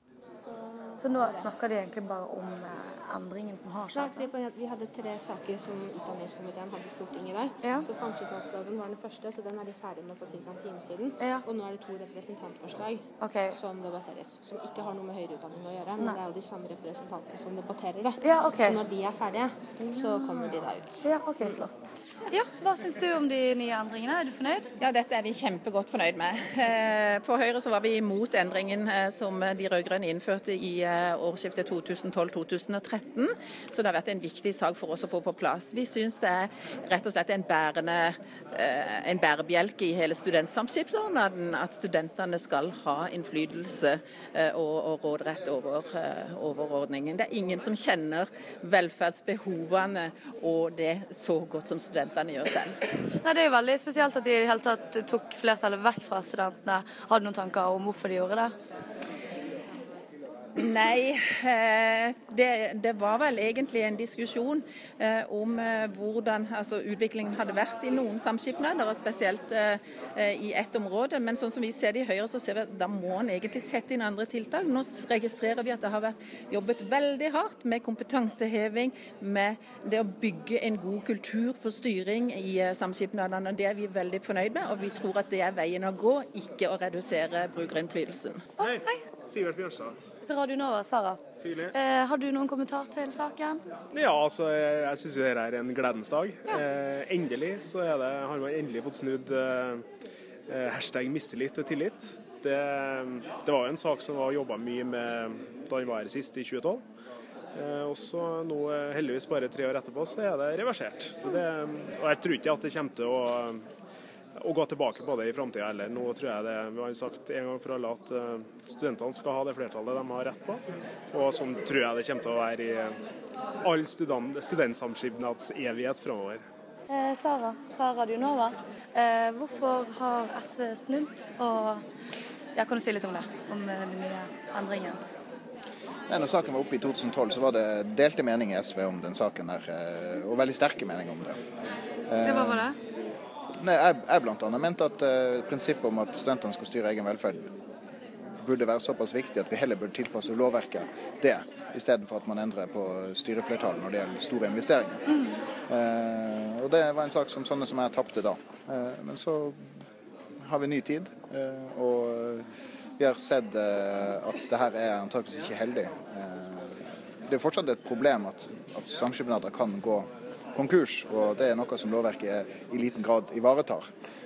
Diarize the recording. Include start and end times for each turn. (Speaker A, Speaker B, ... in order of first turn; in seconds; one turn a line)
Speaker A: 1.0-4.3
Speaker B: 3.9-20.9
Speaker A: 13.2-13.6
Speaker A: 18.2-18.8
Speaker A: 19.8-24.7
Speaker C: 24.8-52.8
Speaker A: 53.2-58.5
Speaker C: 60.6-88.5
Speaker D: 88.6-90.0
Speaker A: 90.2-91.2
Speaker D: 91.4-91.7
Speaker A: 91.7-93.6
Speaker D: 93.9-99.8
Speaker D: 100.5-106.8
Speaker D: 107.5-113.7
Speaker D: 114.4-123.0
Speaker D: 123.6-126.4
Speaker A: 126.9-131.8
Speaker A: 132.6-135.0
Speaker E: 136.1-141.4
Speaker E: 142.1-142.7
Speaker A: 142.2-142.7
Speaker E: 143.6-147.5
Speaker E: 148.4-155.2
Speaker E: 155.7-159.6
Speaker E: 160.4-162.5
Speaker E: 163.0-173.9